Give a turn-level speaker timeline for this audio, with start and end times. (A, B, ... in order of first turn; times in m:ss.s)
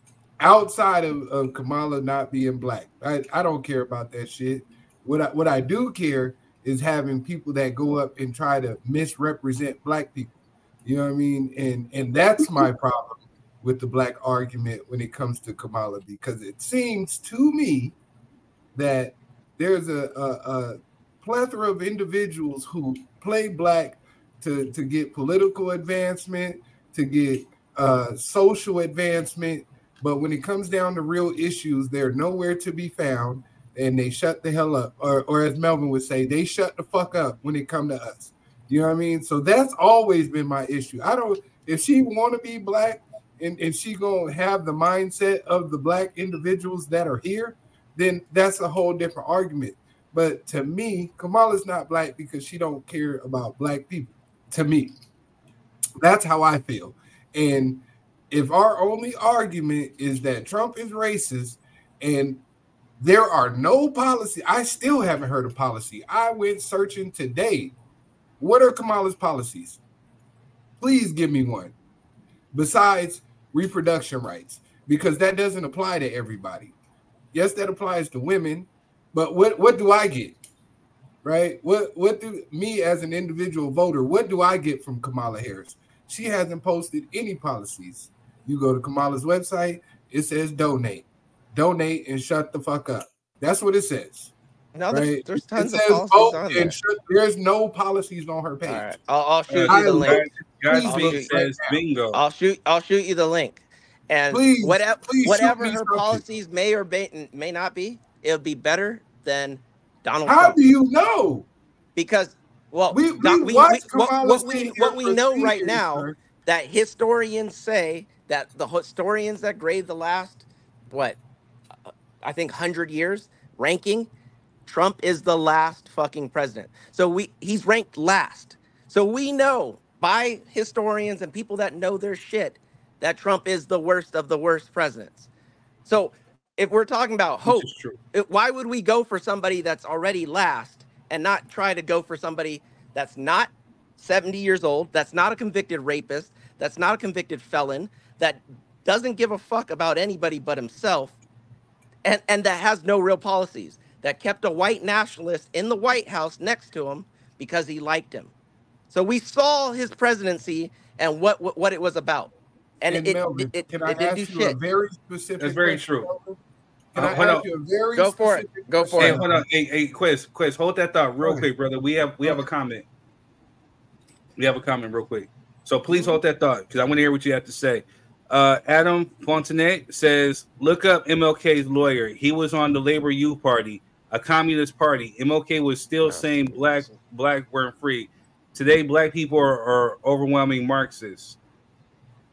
0:00.4-0:18.0 A
0:18.8-0:55.0 A
0:56.0-1:02.4 A
1:03.0-1:07.8 A
1:08.4-1:09.8 A
1:10.8-1:11.8 A
1:12.5-1:16.8 A
1:17.3-1:20.4 A
1:21.2-1:34.3 A
1:34.8-1:36.8 B
1:34.9-1:38.9 A
1:38.7-1:41.4 B
1:39.5-1:42.2 C
1:39.6-1:41.8 A
1:42.1-1:50.6 B
1:44.3-1:46.2 A
1:50.2-1:51.5 A
1:52.0-2:01.2 B
1:52.9-1:56.2 A
2:01.9-2:04.1 B
2:04.6-2:15.3 B
2:15.9-2:31.2 B
2:17.4-2:18.0 C
2:32.0-2:38.3 B
2:38.9-2:44.6 B
2:42.9-2:46.4 A
2:45.4-2:46.1 C
2:46.9-2:49.4 A
2:46.9-2:47.5 C
2:48.0-2:49.2 B
2:49.0-2:52.8 C
2:51.2-2:51.5 A
2:54.4-3:11.4 C
2:55.9-2:56.2 A